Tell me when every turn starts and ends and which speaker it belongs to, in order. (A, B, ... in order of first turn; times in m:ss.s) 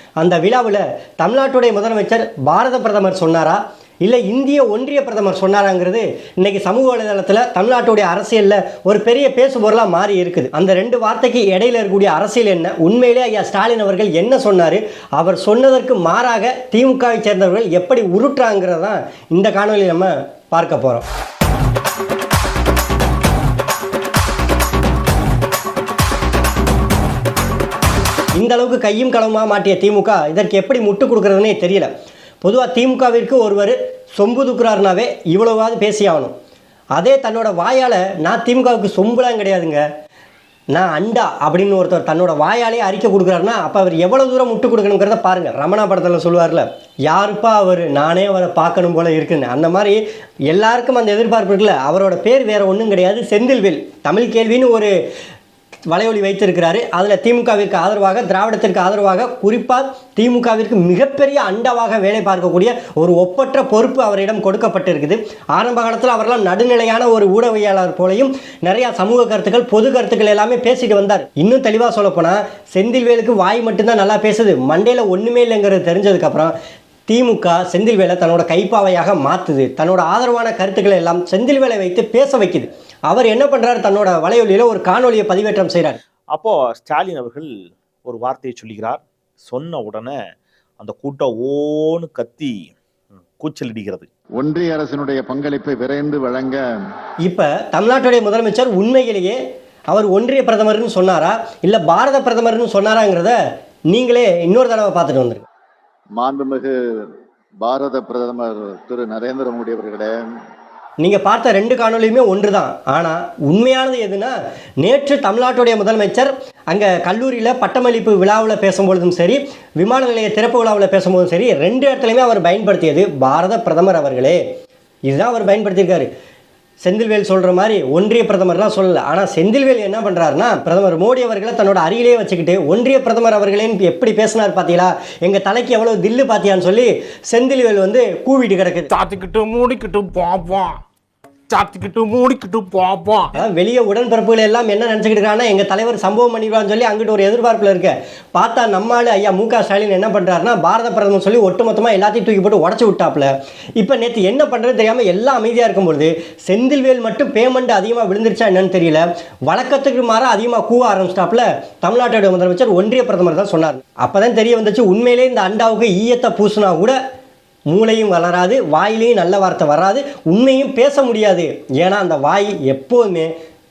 0:00.2-0:21.0 A
0:28.4-0:31.9 A
0:32.4-0:36.3 A
0:36.9-0:39.8 A
0:40.7-0:54.9 A
0:55.9-1:16.5 A
1:17.1-1:26.0 A
1:26.3-1:27.5 B
1:28.0-1:30.2 B
1:30.8-1:32.7 B
1:33.4-1:34.1 B
1:34.4-1:36.6 C
1:37.2-1:39.4 A
1:39.9-1:43.4 A
1:43.9-1:45.4 A
1:46.2-1:47.0 C
1:47.6-1:50.2 C
1:51.0-2:04.4 A
2:05.1-2:06.1 A
2:06.8-2:18.9 A
2:18.9-2:20.8 D
2:21.5-2:23.3 D
2:23.3-2:47.0 A
2:47.7-2:53.3 A